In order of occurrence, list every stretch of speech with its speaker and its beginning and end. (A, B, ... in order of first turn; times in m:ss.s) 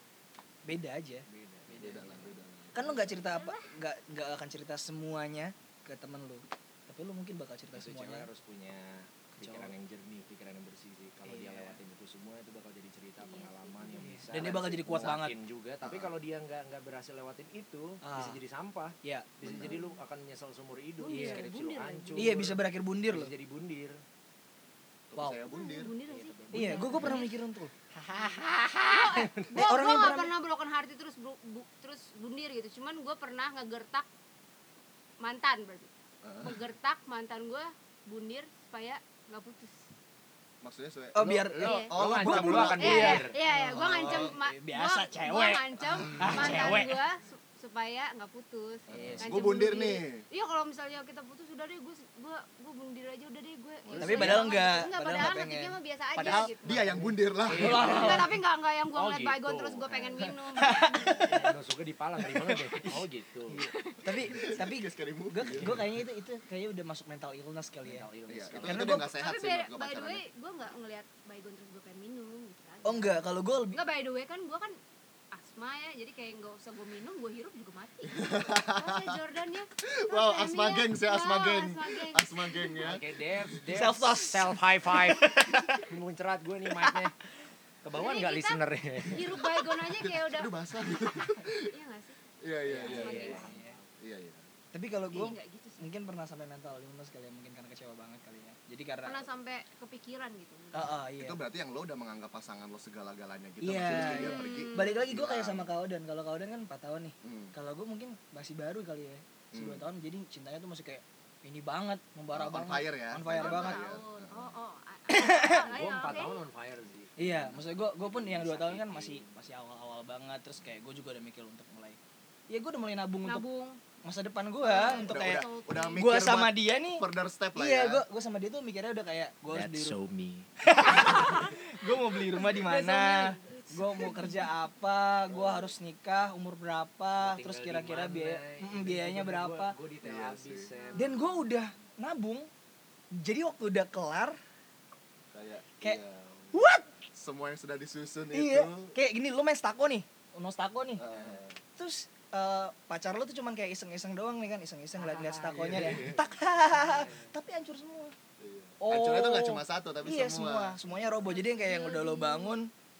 0:00.6-0:01.2 A
0:01.3-0:02.4 B
0:01.7-0:03.1 C
0:02.7-0:08.3 A
0:02.8-0:03.6 D
0:07.7-0:24.0 B
0:09.4-0:09.7 A
0:11.2-0:11.8 A
0:13.2-0:14.2 D
0:14.0-0:15.3 A
0:15.8-0:16.1 C
0:18.0-0:18.4 A
0:19.0-0:19.3 A
0:19.4-0:19.8 C
0:21.0-0:22.5 D
0:21.1-0:21.5 A
0:22.1-0:23.3 A
0:25.1-0:26.0 C
0:25.5-0:27.3 D
0:26.1-0:27.1 B
0:26.5-0:27.7 A
0:28.0-0:29.7 B
0:28.1-0:34.1 D
0:29.5-0:30.3 A
0:35.2-0:39.8 D
0:36.2-0:36.6 C
0:40.6-0:44.3 C
0:41.1-0:47.0 A
0:41.2-0:43.4 B
0:41.6-0:41.9 D
0:42.8-0:56.8 D
0:45.8-0:46.7 C
0:48.9-0:50.2 C
0:48.9-0:49.4 A
0:49.0-0:49.3 B
0:53.8-0:54.5 C
0:54.0-0:54.4 B
0:54.0-0:58.3 A
0:56.2-0:58.1 C
0:57.4-0:58.4 B
0:57.6-1:01.3 D
0:58.9-1:00.3 B
1:00.6-1:01.5 A
1:01.2-1:03.6 B
1:02.2-1:08.0 A
1:03.6-1:04.2 D
1:04.3-1:05.8 C
1:05.5-1:05.8 B
1:07.8-1:09.0 B
1:08.3-1:10.2 C
1:08.6-1:09.1 A
1:09.1-1:14.8 D
1:12.8-1:13.8 A
1:15.3-1:22.8 D
1:18.1-1:19.1 C
1:19.8-1:23.4 C
1:22.8-1:27.2 B
1:23.7-1:25.9 A
1:27.8-1:29.3 B
1:27.9-1:30.5 D
1:29.8-1:31.7 C
1:31.6-1:32.2 D
1:32.4-1:33.5 C
1:32.6-1:33.9 B
1:32.8-1:33.5 D
1:33.1-1:33.8 A
1:34.0-1:34.4 C
1:34.7-1:39.2 A
1:35.1-1:35.9 D
1:39.0-1:41.0 D
1:40.7-1:41.4 A
1:41.2-1:45.7 C
1:43.6-1:53.8 A
1:44.0-1:45.0 D
1:47.2-1:47.5 C
1:49.5-1:49.8 C
1:52.3-1:54.5 C
1:53.2-1:56.4 D
1:55.1-1:55.6 A
1:55.4-1:59.3 B
1:57.2-2:02.0 A
2:02.5-2:03.4 A
2:03.2-2:03.8 D
2:04.0-2:05.4 A
2:04.6-2:08.0 C
2:04.6-2:06.0 D
2:06.0-2:10.0 A
2:09.5-2:10.5 B
2:10.6-2:19.7 A
2:10.9-2:11.5 D
2:12.2-2:14.5 D
2:15.3-2:15.7 C
2:17.2-2:21.2 B
2:20.0-2:20.7 C
2:20.7-2:21.4 D
2:20.9-2:22.5 A
2:23.1-2:24.4 A
2:25.3-2:26.6 C
2:26.5-2:26.9 A
2:27.1-2:28.9 C
2:28.3-2:31.0 A
2:31.0-2:31.6 C
2:31.1-2:31.4 B
2:31.8-2:38.1 A
2:35.0-2:36.2 B
2:35.5-2:36.3 C
2:36.7-2:37.3 B
2:38.4-2:40.8 C
2:38.8-2:42.7 A
2:40.9-2:42.6 D